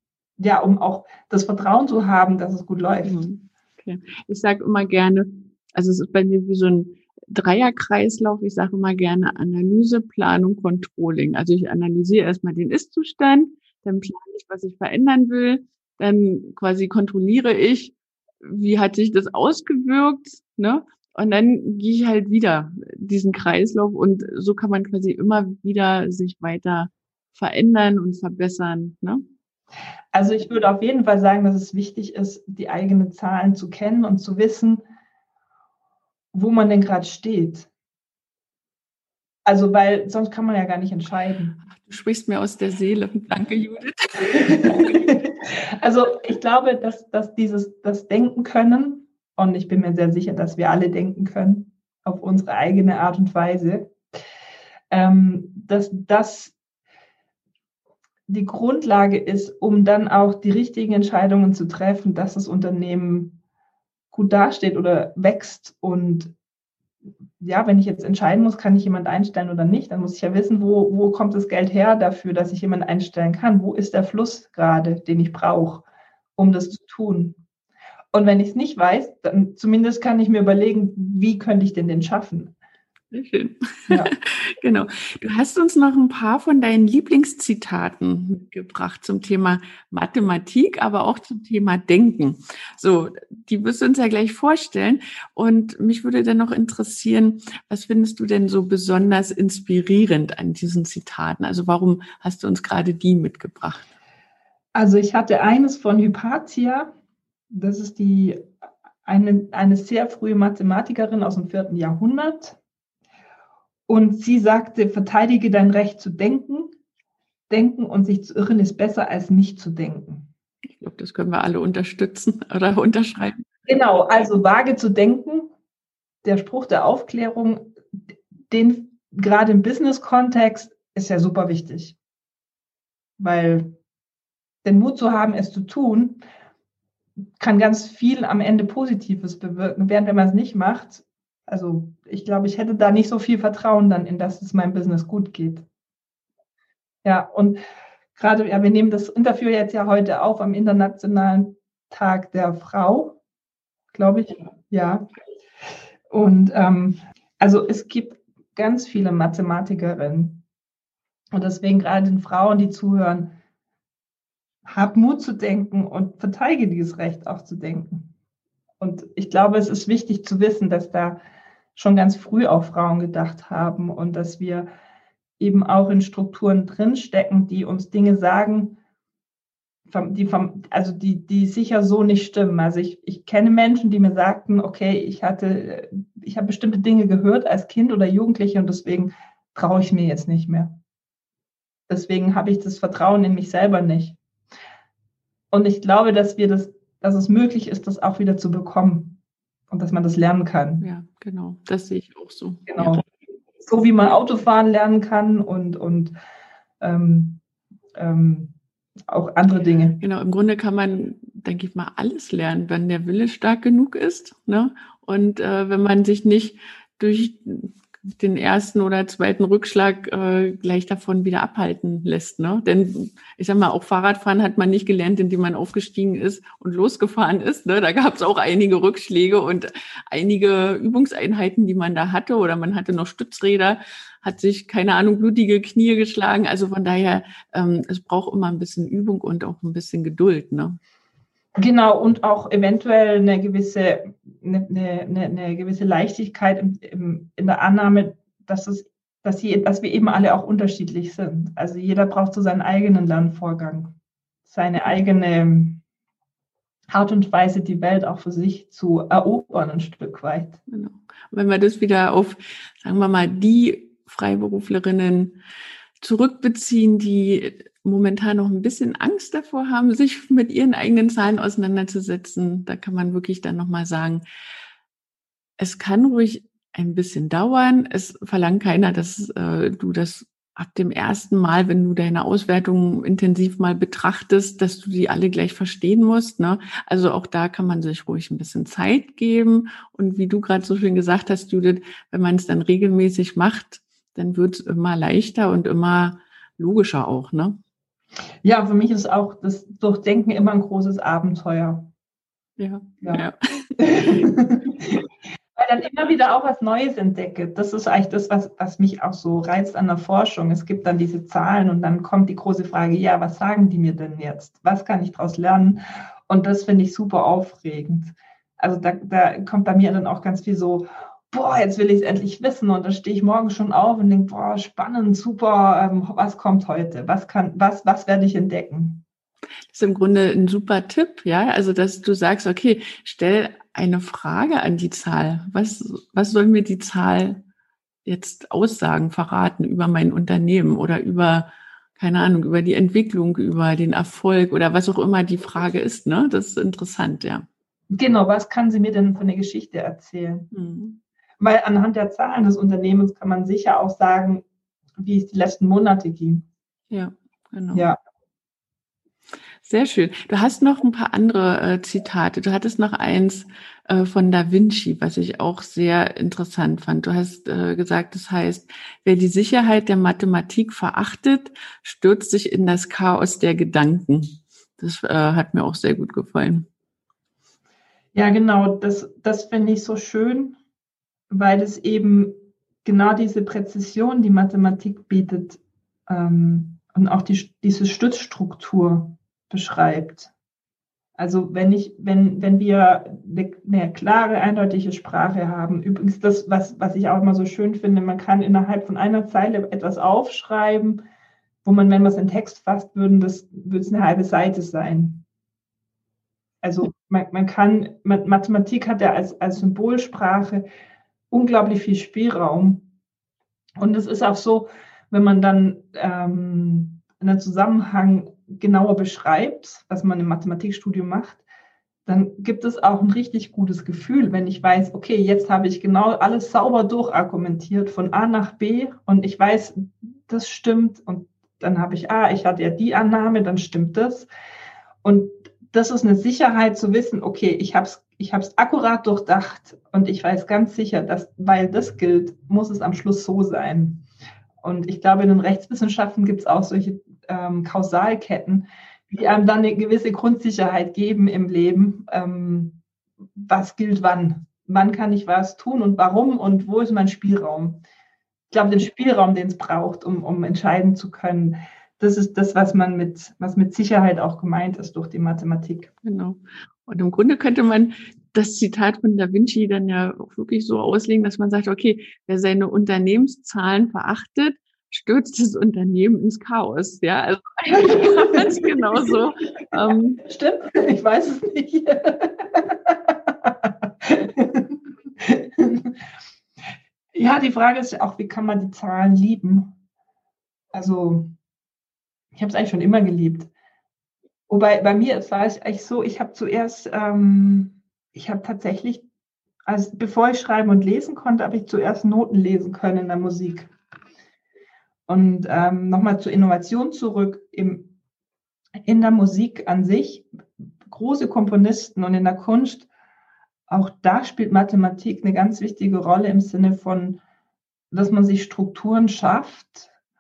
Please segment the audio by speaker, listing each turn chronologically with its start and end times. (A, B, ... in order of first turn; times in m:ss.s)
0:00.4-0:03.2 A
0:03.0-0:29.2 B
0:30.1-0:34.8 A
0:36.3-0:37.7 A
0:39.4-0:41.6 A
0:41.7-0:45.1 B
0:44.3-0:53.9 A
0:54.9-0:56.5 A
0:58.3-1:03.4 A
1:04.1-1:06.3 A
1:07.4-1:15.8 A
1:16.4-1:17.4 A
1:18.1-1:22.5 A
1:23.1-1:43.8 B
1:44.7-1:46.9 A
1:47.5-1:48.5 A
1:49.0-1:52.6 A
1:53.9-1:56.7 A
1:57.5-2:00.3 A
2:00.8-2:03.4 B
2:03.7-2:05.5 A
2:06.2-2:07.8 A
2:08.5-2:12.0 A
2:13.2-2:13.7 A
2:14.6-2:16.2 A
2:17.4-2:25.6 A
2:27.0-2:27.6 A
2:28.2-2:33.2 A
2:33.9-2:35.0 A
2:36.1-2:40.4 A
2:41.3-2:43.3 A
2:44.6-2:48.1 A
2:48.8-2:51.2 A
2:51.7-2:54.7 A
2:55.4-2:58.8 A
2:59.9-3:10.8 A
3:11.9-3:14.2 A
3:15.5-3:19.2 A
3:19.7-3:20.9 A
3:20.8-3:23.0 B
3:22.7-3:23.1 A
3:23.6-3:26.1 A
3:26.8-3:27.4 A
3:27.9-3:28.6 A
3:29.1-3:30.0 A
3:30.0-4:00.8 B
4:01.6-4:15.8 A
4:16.9-4:20.6 A
4:20.7-4:25.4 B
4:26.0-4:34.2 B
4:35.6-4:57.6 B
4:58.4-5:01.9 A
5:02.6-5:03.4 B
5:03.8-5:29.0 A
5:29.7-5:37.4 B
5:38.0-5:47.4 B
5:47.9-5:50.5 A
5:50.5-5:51.0 B
5:51.4-5:54.4 A
5:55.0-5:56.4 A
5:56.9-5:57.9 B
5:59.6-6:16.7 B
6:18.1-6:20.6 A
6:21.3-6:30.3 A
6:31.2-6:41.0 A
6:41.6-6:45.2 A
6:46.6-6:50.6 A
6:51.3-6:52.9 A
6:53.8-7:01.4 A
7:02.0-7:14.3 A
7:15.0-7:24.0 A
7:24.6-7:32.8 A
7:33.4-7:37.8 A
7:38.5-7:45.9 A
7:46.0-8:00.2 B
7:57.8-7:59.1 A
8:00.2-8:06.0 A
8:07.2-8:09.8 A
8:10.7-8:11.3 A
8:12.3-8:13.5 A
8:14.5-8:19.0 A
8:19.7-8:23.7 A
8:25.1-8:27.9 A
8:28.8-8:30.3 A
8:30.8-8:32.9 A
8:33.7-8:37.2 A
8:37.9-8:39.9 A